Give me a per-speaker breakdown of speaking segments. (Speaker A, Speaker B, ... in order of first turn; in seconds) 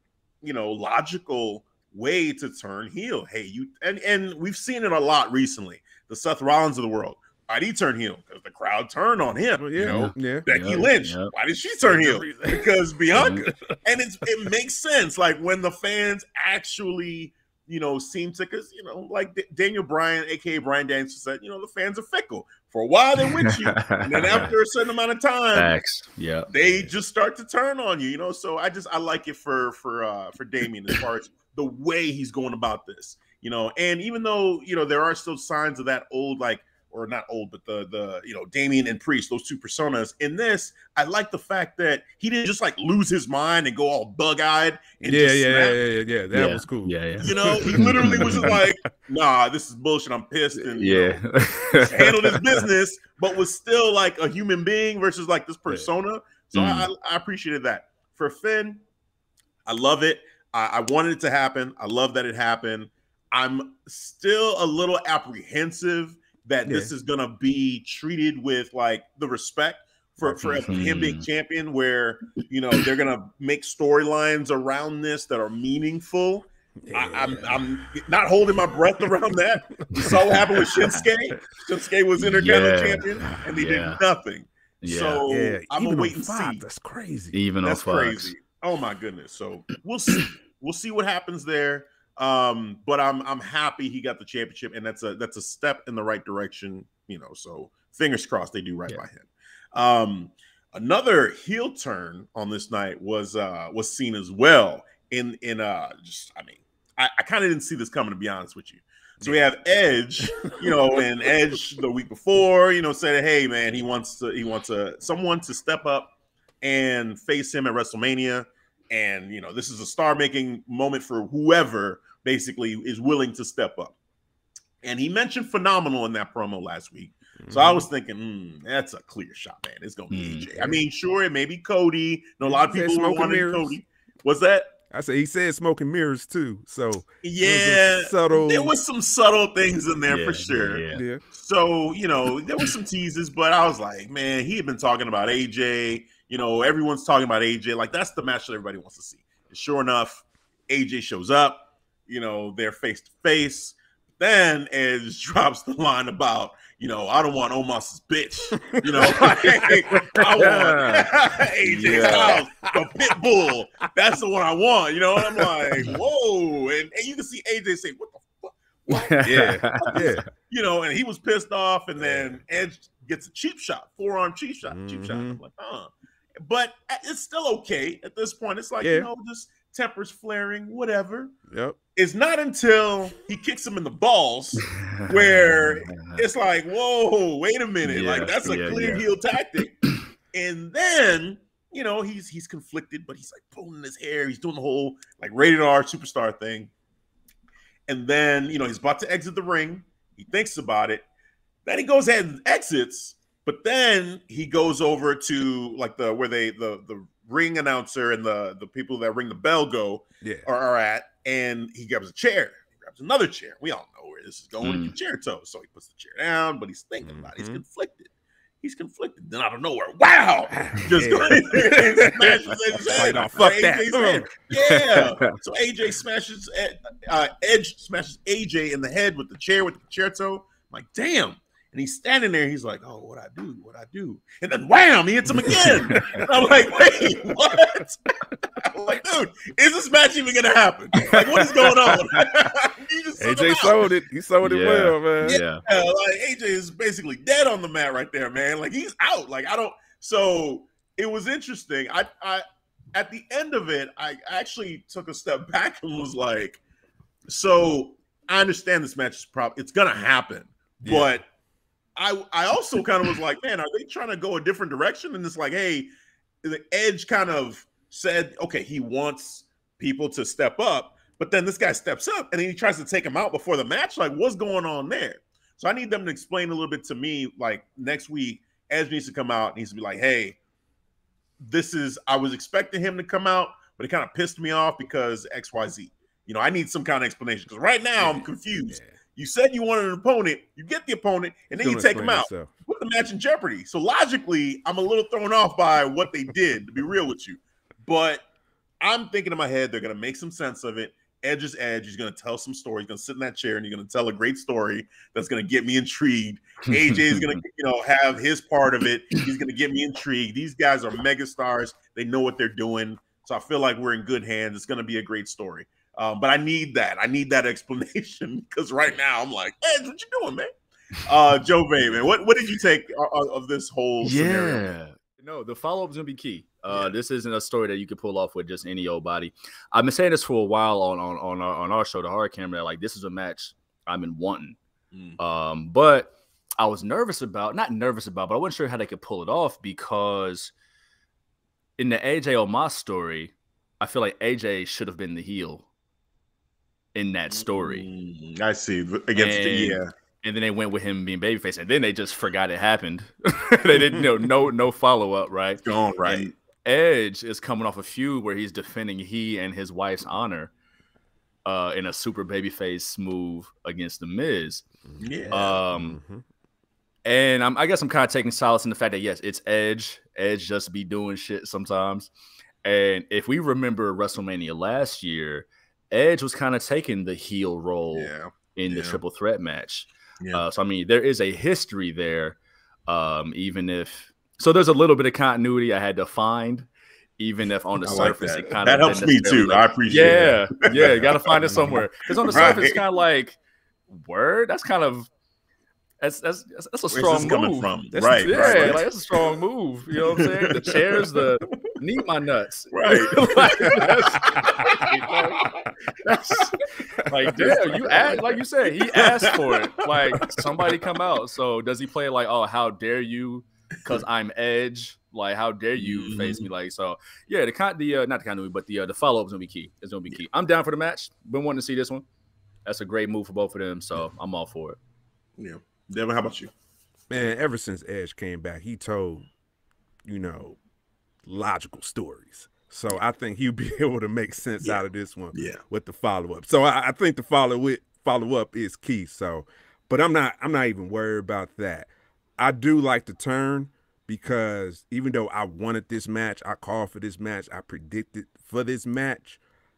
Speaker A: 0.4-25.7, 26.5-45.8, 47.2-51.2, 51.7-58.8, 59.6-86.6, 87.6-124.0, 124.8-134.7, 137.2-175.9, 176.4-181.3, 181.9-196.7, 197.9-201.0, 201.7-218.1, 218.6-238.0, 238.6-243.9, 245.2-256.6, 257.3-261.2, 262.0-265.9, 266.4-280.4, 281.4-298.2, 298.8-320.5, 321.0-324.6, 326.7-326.9, 334.9-335.2, 347.3-349.9, 355.6-356.3, 365.0-365.6, 377.9-379.0, 387.8-392.8, 396.9-398.9, 400.1-400.8, 402.7-404.9, 405.4-405.6, 407.4-408.2, 408.8-410.3, 415.8-416.5, 425.4-426.5, 435.3-435.6
Speaker B: 9.6-10.4, 11.8-13.8, 45.0-48.6, 66.6-66.9, 70.2-70.6, 76.8-77.6, 85.3-87.4, 127.4-127.9, 132.4-133.8, 134.9-138.7, 140.9-141.2, 158.6-159.7, 161.9-162.8, 165.2-165.9, 169.2-170.2, 172.0-172.4, 174.7-175.4, 178.8-179.1, 181.5-181.8, 210.2-210.5, 217.0-217.6, 220.5-224.3, 243.2-245.4, 260.8-261.1, 288.0-288.9, 291.5-292.5, 365.7-366.2, 391.5-391.8, 397.9-398.9, 427.1-429.3, 430.0-430.6, 431.2-449.4
Speaker C: 9.8-11.3, 13.1-13.4, 23.3-24.5, 25.5-26.5, 46.3-48.5, 50.7-52.6, 56.5-56.9, 70.4-71.2, 79.9-81.0, 82.2-84.0, 84.8-85.2, 87.3-88.3, 130.1-130.5, 140.1-141.0, 159.9-161.1, 161.6-162.4, 168.9-170.2, 184.7-186.2, 187.8-189.1, 214.6-214.9, 224.6-225.3, 235.4-236.2, 241.0-242.2, 244.4-245.6, 306.7-307.4, 324.0-334.6, 335.2-340.5, 341.8-345.6, 346.9-347.9, 349.1-360.5, 361.4-364.6, 365.3-366.0, 367.1-372.1, 372.6-393.4, 393.9-395.1, 396.0-405.4, 406.0-422.0, 422.6-424.8